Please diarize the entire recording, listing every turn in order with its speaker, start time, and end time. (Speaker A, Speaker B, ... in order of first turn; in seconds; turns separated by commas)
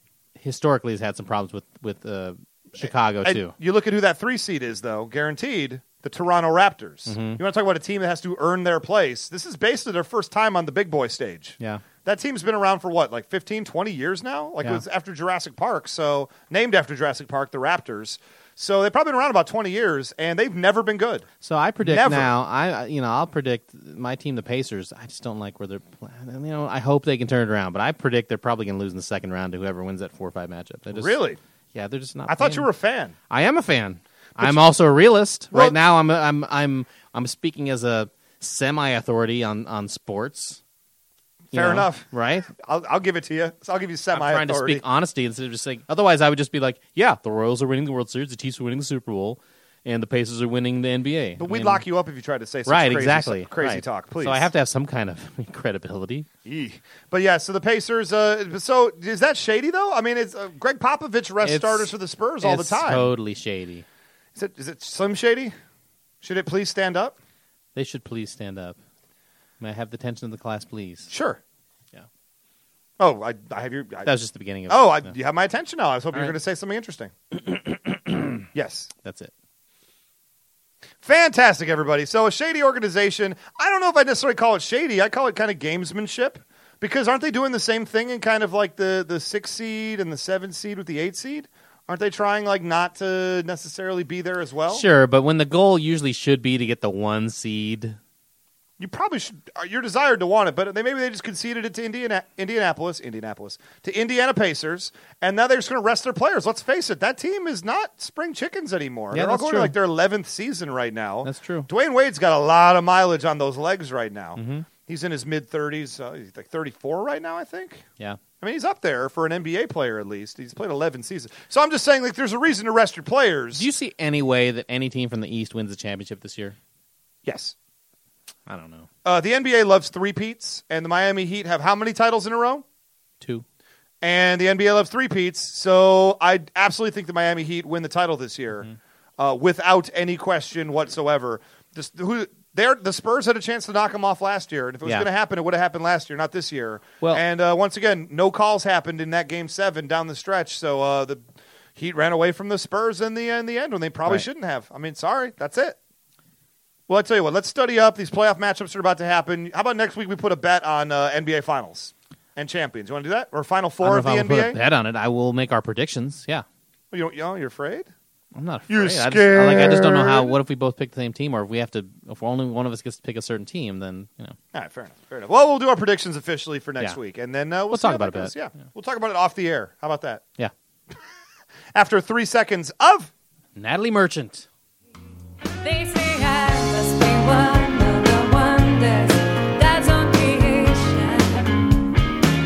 Speaker A: 0.4-3.5, Speaker B: 2.8-21.3, Speaker A: 7.1-7.4, Speaker A: 21.4-31.1, Speaker B: 21.8-22.3, Speaker B: 30.9-31.4, Speaker A: 31.7-32.7, Speaker B: 32.3-33.1, Speaker A: 33.3-40.6, Speaker B: 35.5-35.8, Speaker B: 41.5-44.8, Speaker A: 41.5-42.5, Speaker A: 44.1-51.8, Speaker B: 51.4-54.5, Speaker A: 52.7-56.3, Speaker B: 56.4-63.1, Speaker A: 61.4-63.8, Speaker B: 64.3-65.5, Speaker B: 66.2-67.2, Speaker A: 67.7-68.8, Speaker A: 69.6-71.1, Speaker B: 71.1-71.4, Speaker B: 73.0-74.1, Speaker A: 74.0-75.1, Speaker B: 74.7-77.1, Speaker A: 77.4-78.5, Speaker B: 78.5-78.9, Speaker A: 79.0-79.3, Speaker B: 81.0-94.8, Speaker A: 94.7-98.0, Speaker B: 98.8-117.8, Speaker A: 109.1-109.7, Speaker A: 111.2-111.7, Speaker A: 114.3-114.7, Speaker B: 118.4-123.6, Speaker A: 123.5-126.5, Speaker B: 127.2-127.5, Speaker A: 128.5-128.9, Speaker B: 129.0-132.6, Speaker B: 134.0-138.7, Speaker B: 139.2-151.2, Speaker B: 151.8-155.8, Speaker B: 156.9-164.6, Speaker A: 163.8-166.4, Speaker B: 166.9-167.9, Speaker A: 168.3-174.4, Speaker B: 168.7-170.3, Speaker B: 174.5-180.2, Speaker A: 177.7-178.3, Speaker B: 181.7-183.1, Speaker A: 183.6-184.4, Speaker C: 185.6-191.7